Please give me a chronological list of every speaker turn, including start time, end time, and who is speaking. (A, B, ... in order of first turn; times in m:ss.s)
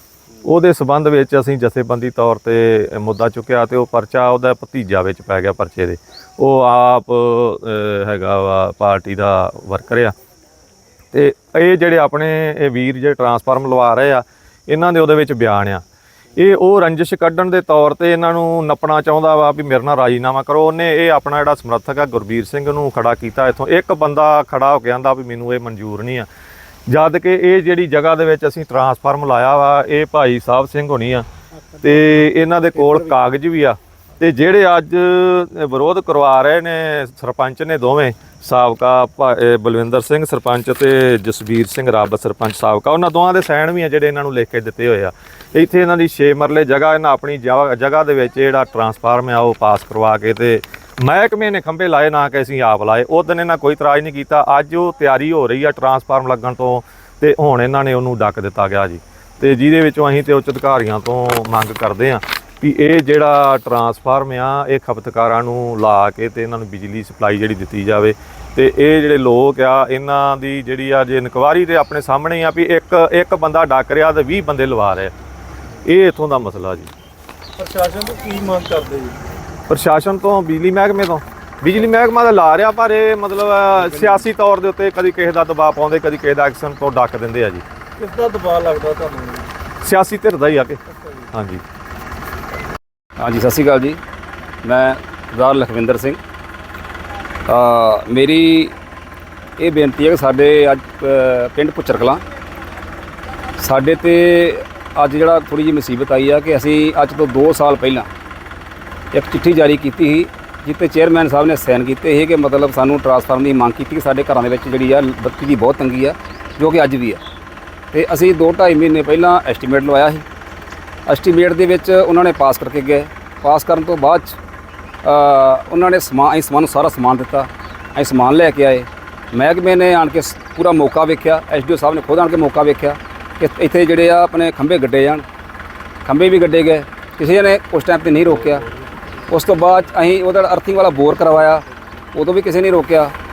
0:00.4-0:10.1 A
0:11.1-0:15.8 A
0:16.4-0:26.3 A
0:26.9-0:31.2 A
0:31.8-1:15.1 A
1:15.8-1:16.9 A
1:17.6-1:19.1 B
1:19.7-1:27.6 A
1:28.0-1:29.5 B
1:29.8-1:30.8 A
1:31.3-1:31.6 A
1:33.2-1:34.0 C
1:34.6-1:36.2 C
1:37.5-1:38.7 C
1:39.6-1:42.2 C
1:43.6-1:48.1 C
1:49.1-1:57.2 C
1:57.9-2:00.2 C
2:01.1-2:04.4 C
2:05.0-2:15.2 C
2:16.0-2:18.7 C
2:19.3-2:23.1 C